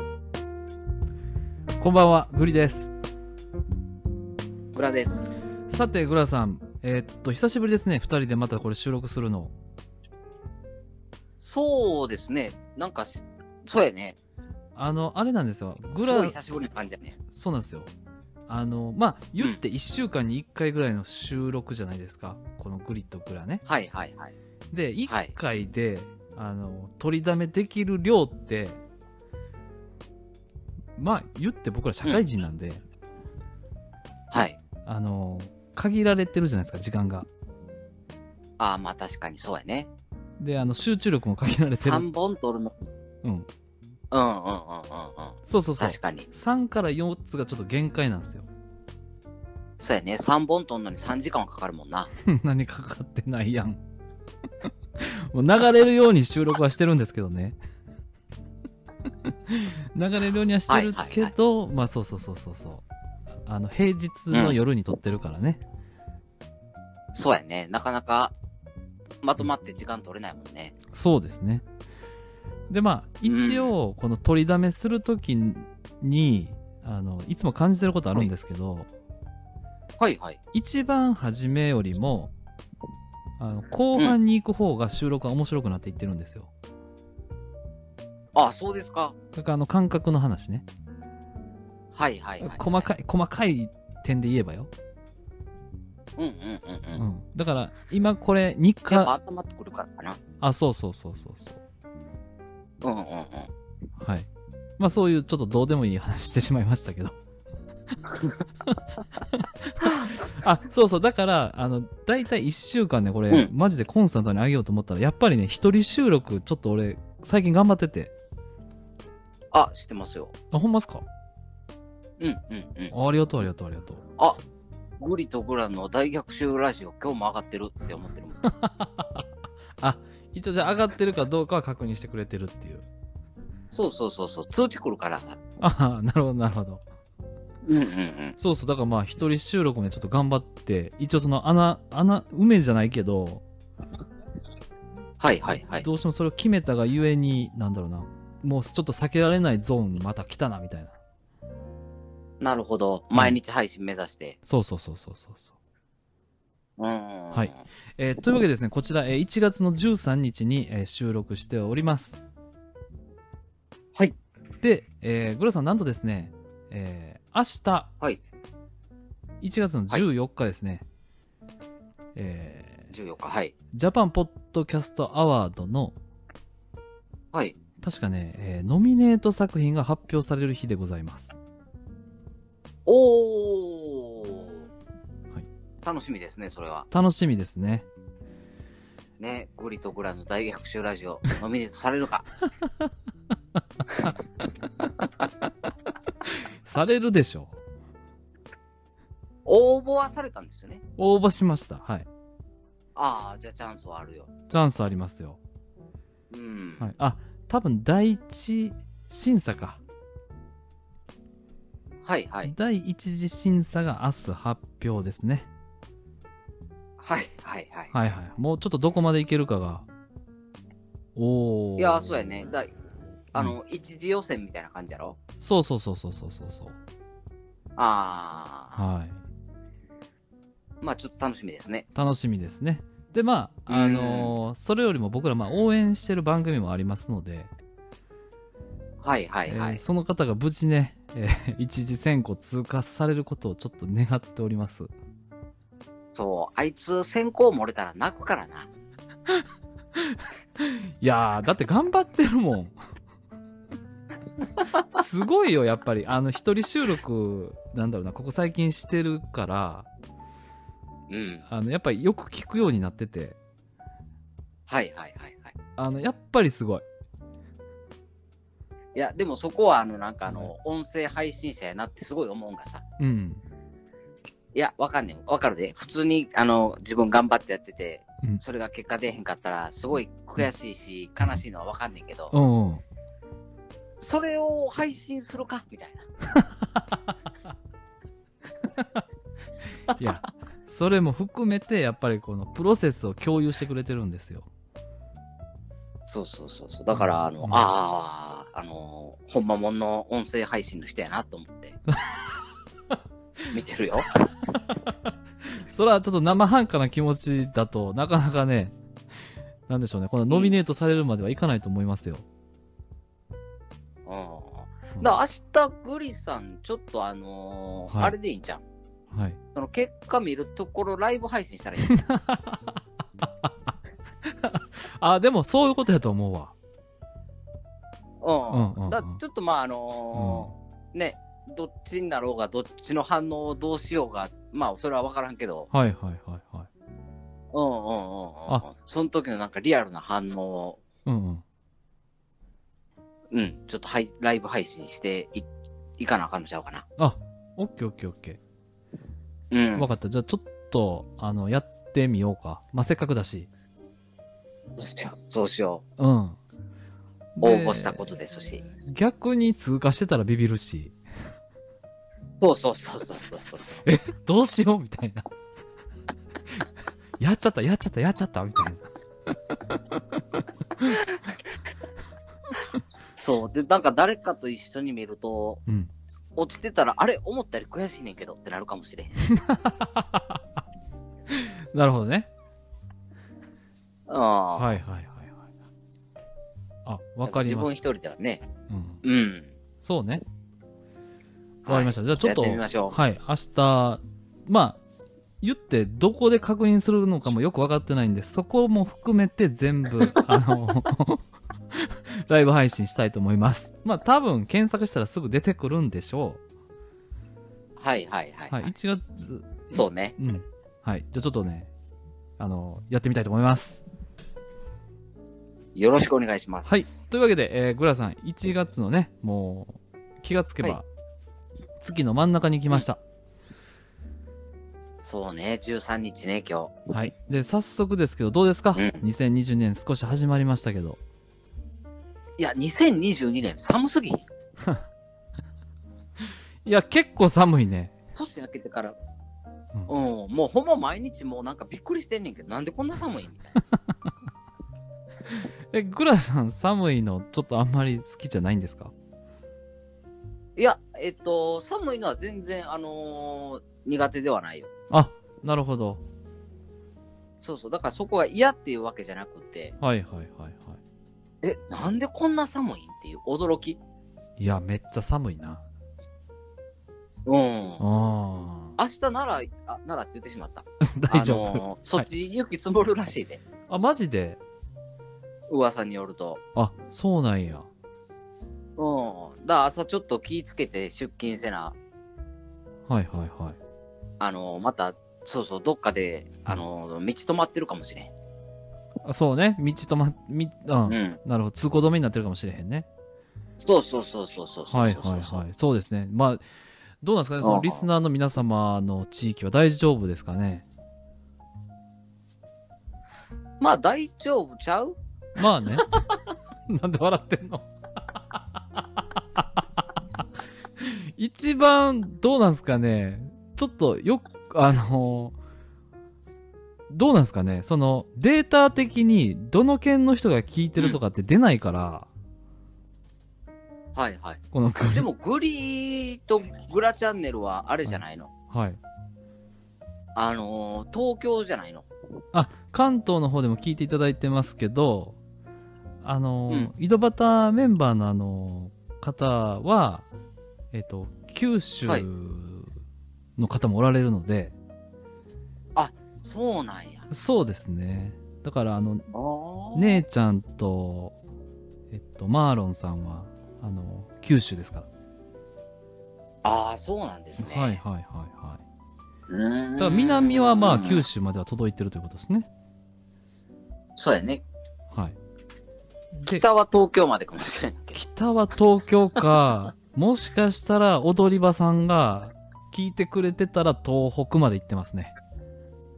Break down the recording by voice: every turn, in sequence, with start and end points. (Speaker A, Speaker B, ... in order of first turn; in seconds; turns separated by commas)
Speaker A: 1.8-2.9, Speaker B: 4.7-5.4, Speaker A: 5.7-9.5, Speaker B: 11.4-14.2, Speaker A: 14.8-16.6, Speaker B: 16.0-17.2, Speaker A: 17.3-17.9, Speaker A: 18.5-23.6, Speaker B: 23.6-24.3, Speaker A: 24.7-28.8, Speaker B: 25.1-25.3, Speaker A: 31.0-32.8, Speaker B: 34.3-34.6, Speaker A: 34.9-37.3, Speaker B: 38.6-39.9, Speaker A: 40.4-42.0, Speaker B: 41.7-42.8, Speaker B: 44.1-46.3, Speaker A: 45.5-48.5, Speaker B: 49.8-52.1, Speaker A: 52.2-53.8, Speaker A: 55.0-57.6, Speaker A: 59.5-62.8, Speaker B: 60.7-61.3, Speaker A: 63.5-65.6, Speaker B: 64.3-64.6, Speaker B: 67.1-68.3, Speaker B: 69.2-70.7, Speaker A: 70.9-71.6, Speaker A: 72.7-78.9, Speaker B: 73.2-73.7, Speaker B: 80.0-80.4, Speaker A: 80.5-82.3, Speaker A: 83.4-86.5, Speaker B: 88.3-89.1, Speaker A: 89.3-90.6, Speaker B: 91.9-92.9, Speaker A: 92.4-94.7, Speaker B: 96.2-97.0, Speaker A: 97.0-99.1, Speaker B: 98.9-100.2, Speaker A: 100.4-101.6, Speaker B: 102.8-103.5, Speaker A: 104.0-104.3, Speaker A: 104.8-107.2, Speaker A: 109.3-118.1, Speaker B: 119.5-120.3, Speaker A: 120.5-121.0, Speaker B: 122.2-122.9, Speaker A: 122.9-124.0, Speaker B: 125.0-128.4, Speaker A: 128.4-129.2, Speaker A: 129.8-132.8, Speaker B: 133.7-135.4, Speaker A: 135.6-136.8, Speaker B: 137.6-138.3, Speaker A: 138.4-143.4, Speaker B: 145.2-145.8, Speaker A: 145.6-151.0, Speaker B: 152.4-154.4, Speaker A: 154.4-155.5, Speaker B: 156.8-157.6, Speaker A: 157.3-162.2, Speaker A: 164.6-167.9, Speaker A: 169.4-170.8, Speaker A: 172.1-172.9, Speaker B: 172.9-173.5, Speaker A: 173.7-175.9, Speaker A: 177.8-181.3, Speaker B: 182.8-184.7, Speaker B: 185.8-186.9, Speaker A: 186.9-187.8, Speaker B: 189.2-192.3, Speaker A: 196.6-197.6, Speaker B: 199.4-200.8, Speaker A: 201.0-202.1, Speaker B: 202.9-204.3, Speaker A: 204.5-205.4, Speaker B: 206.3-206.9, Speaker A: 206.8-209.8, Speaker B: 212.0-212.5, Speaker A: 212.4-215.5, Speaker B: 217.0-217.9, Speaker A: 217.9-219.8, Speaker A: 221.2-222.2, Speaker B: 221.8-222.7, Speaker B: 223.3-225.2, Speaker A: 225.4-226.8, Speaker B: 227.8-228.8, Speaker A: 228.8-229.2, Speaker B: 230.8-231.8, Speaker A: 231.9-237.5, Speaker B: 233.7-234.3, Speaker B: 239.0-239.8, Speaker A: 239.5-244.9, Speaker B: 246.1-248.7, Speaker A: 250.6-252.8, Speaker A: 254.9-259.9, Speaker B: 261.1-261.4, Speaker A: 261.5-263.4, Speaker B: 264.7-265.5, Speaker A: 265.8-266.8, Speaker B: 268.9-272.8, Speaker A: 273.0-273.4, Speaker B: 274.5-282.3, Speaker A: 282.3-282.8, Speaker B: 284.0-286.1, Speaker A: 290.0-294.5, Speaker B: 296.1-301.8, Speaker A: 296.9-297.7, Speaker A: 301.9-302.2, Speaker B: 303.5-304.2, Speaker A: 305.7-308.7, Speaker A: 309.7-312.2, Speaker B: 310.3-310.5, Speaker B: 314.1-318.6, Speaker A: 317.9-318.1, Speaker A: 319.1-319.4, Speaker B: 319.5-322.0, Speaker A: 321.9-322.6, Speaker A: 324.2-326.5, Speaker B: 328.2-335.7, Speaker A: 328.5-329.2, Speaker A: 330.1-330.5, Speaker A: 335.7-336.7, Speaker B: 337.5-340.8, Speaker A: 341.1-341.4, Speaker B: 343.3-345.5, Speaker B: 346.0-346.8, Speaker A: 347.0-348.4, Speaker B: 349.5-349.9, Speaker A: 349.7-353.5, Speaker B: 354.8-355.8, Speaker A: 356.0-356.4, Speaker A: 357.4-361.0, Speaker B: 357.4-358.6, Speaker B: 362.4-363.8, Speaker A: 363.8-365.2, Speaker A: 367.2-368.9, Speaker B: 370.8-371.2, Speaker B: 373.2-375.6, Speaker B: 376.4-379.2, Speaker A: 379.4-380.4, Speaker A: 381.3-382.3, Speaker B: 384.1-384.7, Speaker A: 384.6-385.4, Speaker A: 386.9-387.7, Speaker B: 387.2-388.4, Speaker A: 388.7-389.0, Speaker B: 389.0-389.5, Speaker A: 389.8-390.2, Speaker B: 391.6-393.0, Speaker A: 391.6-394.8, Speaker A: 395.4-401.2, Speaker A: 401.8-406.4, Speaker B: 407.8-408.7, Speaker A: 408.5-411.7, Speaker B: 409.7-410.1, Speaker A: 412.4-413.8, Speaker B: 415.7-416.9, Speaker A: 416.7-420.8, Speaker A: 421.8-423.0, Speaker B: 425.0-426.7, Speaker A: 426.9-431.0, Speaker B: 428.8-429.0, Speaker B: 432.4-434.2, Speaker A: 436.6-437.9, Speaker B: 438.1-438.9, Speaker B: 439.9-443.5, Speaker A: 445.3-448.9, Speaker B: 450.6-454.7, Speaker A: 454.9-456.0, Speaker B: 457.4-459.8, Speaker A: 459.8-460.8, Speaker B: 461.4-463.8, Speaker A: 464.4-465.6, Speaker B: 467.2-467.8, Speaker A: 467.8-468.8, Speaker B: 468.8-473.4, Speaker A: 470.8-472.1, Speaker A: 473.7-474.4, Speaker B: 475.5-476.4, Speaker A: 476.6-477.7, Speaker B: 478.8-481.8, Speaker A: 482.9-483.6, Speaker B: 484.2-488.1, Speaker A: 489.0-492.9, Speaker B: 490.9-491.2, Speaker B: 493.6-495.4, Speaker A: 494.7-496.4, Speaker A: 497.0-500.6, Speaker B: 497.4-497.9, Speaker B: 503.6-505.0, Speaker A: 505.4-505.9, Speaker A: 506.7-507.7, Speaker A: 510.8-515.4, Speaker A: 516.9-522.1, Speaker B: 523.9-524.4, Speaker A: 524.5-525.1, Speaker B: 524.9-528.3, Speaker A: 528.5-528.8, Speaker B: 530.1-531.9, Speaker A: 532.3-535.2, Speaker A: 536.0-540.0, Speaker A: 540.7-542.7, Speaker A: 543.4-544.5, Speaker B: 545.7-547.1, Speaker A: 547.1-549.1, Speaker B: 549.1-550.0, Speaker A: 549.7-551.1, Speaker A: 551.9-554.9, Speaker B: 556.4-557.8, Speaker A: 557.4-558.6, Speaker B: 559.3-561.0, Speaker A: 559.8-562.5, Speaker B: 564.0-564.4, Speaker A: 566.1-566.4, Speaker B: 566.3-568.0, Speaker A: 567.9-575.1